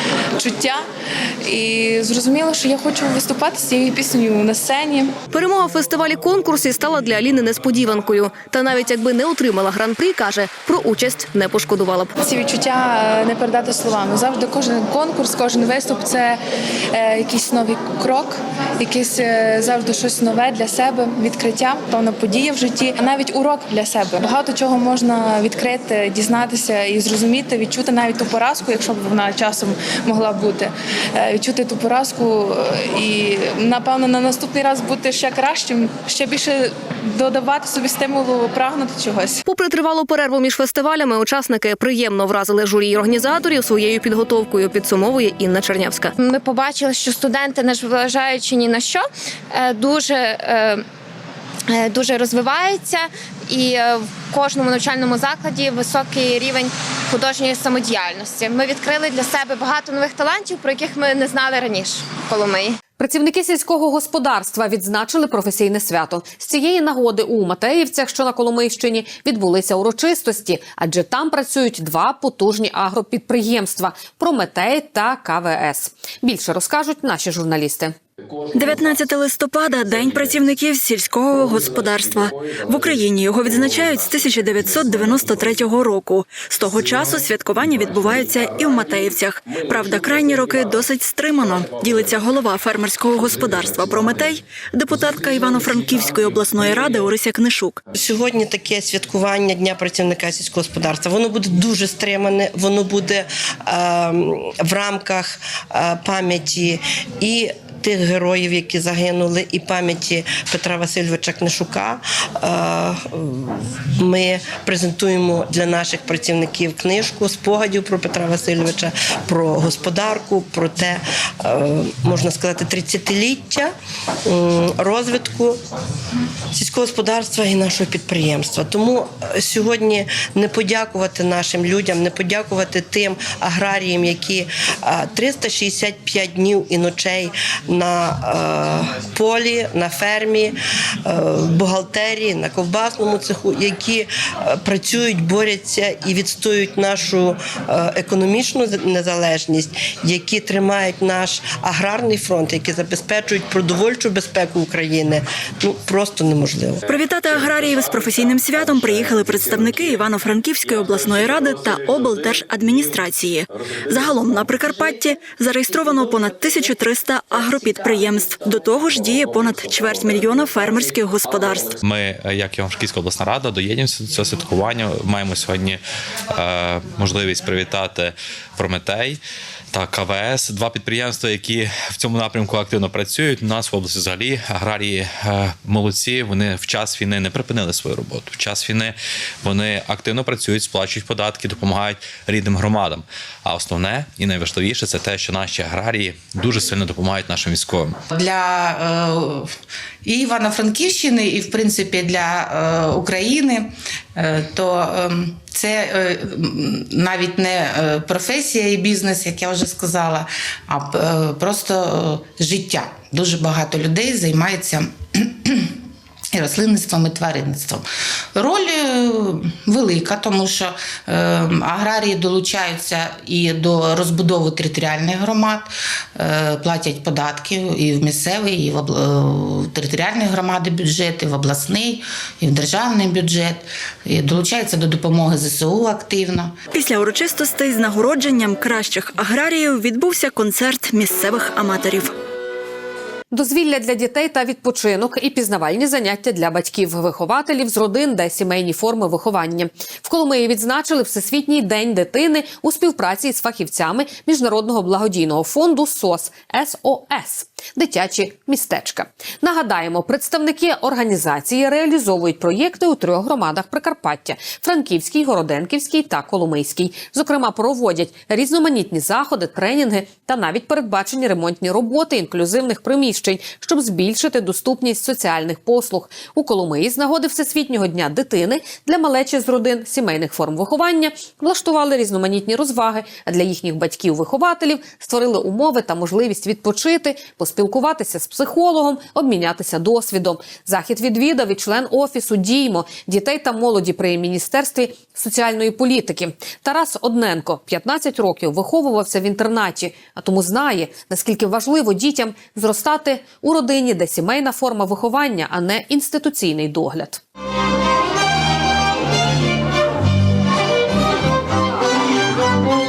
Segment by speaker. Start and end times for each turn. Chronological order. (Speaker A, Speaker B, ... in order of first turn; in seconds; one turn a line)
Speaker A: 0.3-0.8
Speaker A: 1.4-5.1
Speaker B: 5.3-12.1
Speaker A: 12.2-16.4
Speaker A: 16.9-39.4
Speaker B: 39.5-46.1
Speaker C: 46.2-50.8
Speaker C: 51.7-62.8
Speaker D: 63.0-78.0
Speaker E: 78.5-97.8
Speaker F: 98.0-123.7
Speaker F: 124.2-125.6
Speaker F: 126.5-156.8
Speaker E: 156.8-171.8
Speaker G: 171.8-175.8
Speaker G: 176.3-179.2
Speaker G: 179.7-198.0
Speaker H: 198.1-199.5
Speaker H: 200.0-215.8
Speaker H: 216.3-236.5
Speaker E: 236.7-242.1
Speaker D: 243.3-307.2